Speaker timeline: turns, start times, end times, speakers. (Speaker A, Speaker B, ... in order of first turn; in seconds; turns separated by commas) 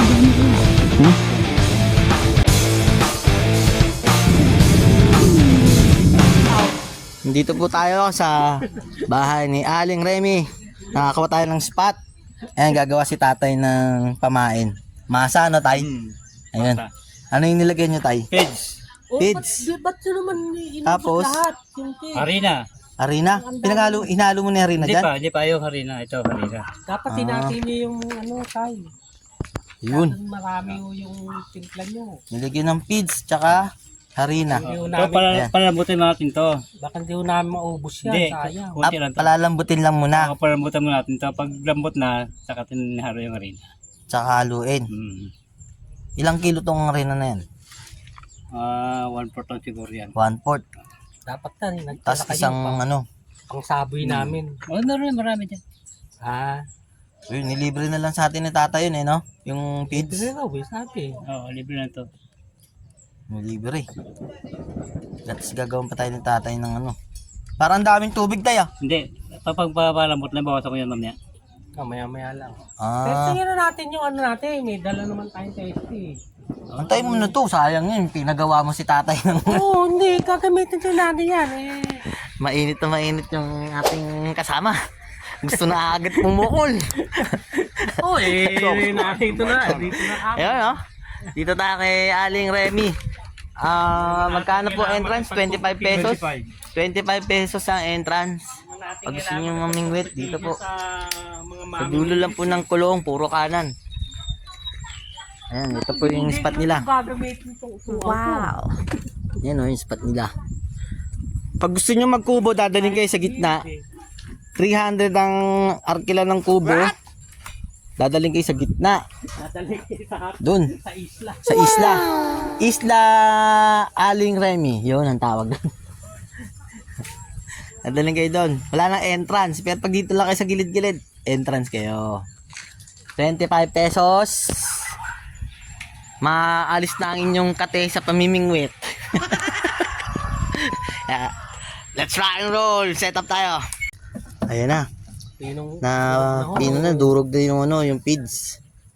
Speaker A: 7.2-12.0, Speaker A: 12.6-15.9, Speaker B: 15.7-16.9, Speaker A: 16.5-18.3, Speaker B: 18.3-18.7, Speaker C: 19.1-22.4, Speaker A: 19.2-19.7, Speaker A: 20.8-21.4, Speaker B: 22.1-22.6, Speaker A: 23.0-25.1, Speaker C: 23.2-24.1, Speaker B: 24.8-26.6, Speaker C: 26.9-28.9, Speaker A: 27.1-27.6, Speaker A: 29.8-30.2, Speaker C: 29.9-32.2, Speaker A: 32.3-34.7, Speaker B: 34.5-36.6, Speaker C: 34.7-35.3, Speaker C: 36.8-38.9, Speaker B: 38.0-39.3, Speaker A: 38.8-40.3, Speaker B: 40.1-43.6, Speaker A: 44.1-44.9, Speaker B: 44.9-45.3, Speaker A: 46.2-47.4, Speaker B: 48.5-50.1, Speaker A: 50.1-50.6, Speaker C: 51.2-52.8, Speaker A: 52.0-53.0, Speaker C: 53.5-54.5, Speaker B: 54.0-55.6, Speaker C: 56.2-56.6, Speaker A: 57.3-60.3, Speaker C: 59.9-61.2, Speaker B: 61.3-62.0, Speaker A: 63.3-63.9, Speaker A: 65.2-66.9, Speaker A: 67.6-68.7, Speaker B: 68.8-71.2, Speaker C: 71.8-76.2, Speaker A: 72.8-73.4, Speaker B: 76.7-77.2, Speaker A: 76.7-79.7, Speaker C: 79.5-82.0, Speaker A: 82.1-93.0, Speaker C: 88.0-90.6, Speaker B: 88.0-89.3, Speaker A: 93.6-100.6, Speaker B: 94.5-96.5, Speaker C: 98.7-99.4, Speaker C: 100.1-102.5, Speaker A: 101.8-103.7, Speaker A: 105.5-106.9, Speaker C: 105.7-108.5, Speaker A: 108.0-108.6, Speaker A: 109.4-110.3, Speaker A: 111.6-113.6, Speaker C: 112.8-113.8, Speaker A: 114.5-117.0, Speaker A: 118.0-119.0, Speaker B: 119.4-120.4, Speaker C: 119.6-120.1, Speaker A: 120.4-120.7, Speaker B: 120.9-121.4, Speaker A: 121.4-125.6, Speaker A: 127.7-132.2, Speaker A: 133.2-135.0, Speaker A: 136.2-143.6, Speaker A: 144.5-144.8, Speaker C: 145.4-147.1, Speaker A: 145.8-148.6